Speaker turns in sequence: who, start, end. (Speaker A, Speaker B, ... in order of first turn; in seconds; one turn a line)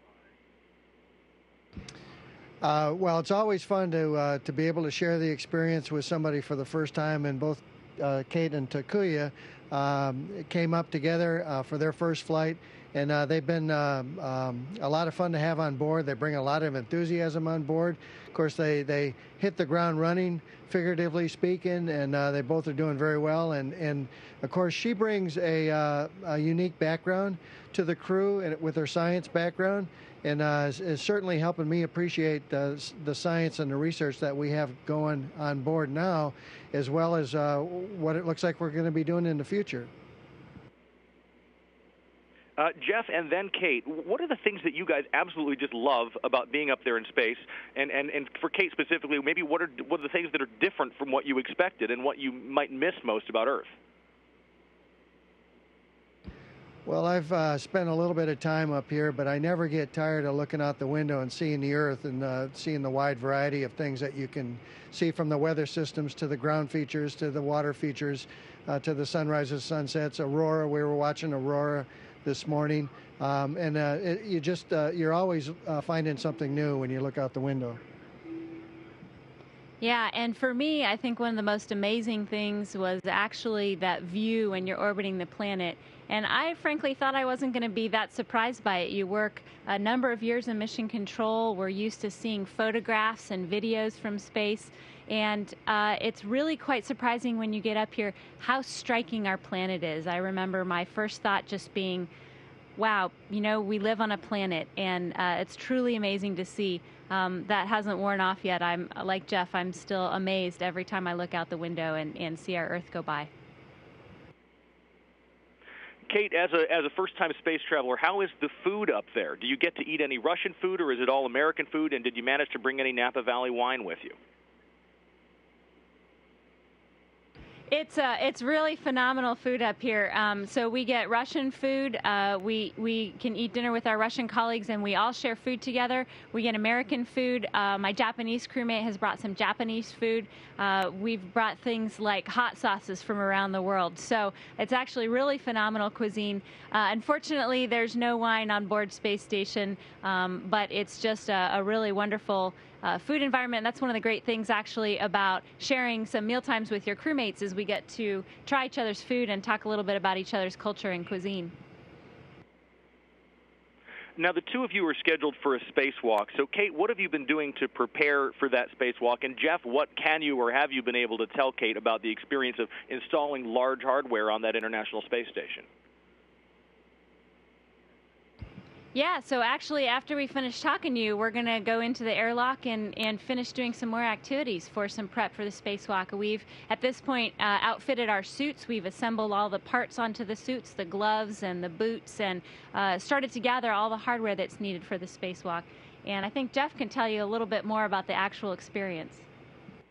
Speaker A: 2.6-39.9
Speaker B: 42.6-53.7
Speaker A: 56.9-77.8
Speaker C: 79.8-102.1
Speaker C: 102.8-113.3
Speaker B: 116.1-124.2
Speaker C: 127.7-161.5
Speaker B: 164.2-175.7
Speaker C: 178.9-199.2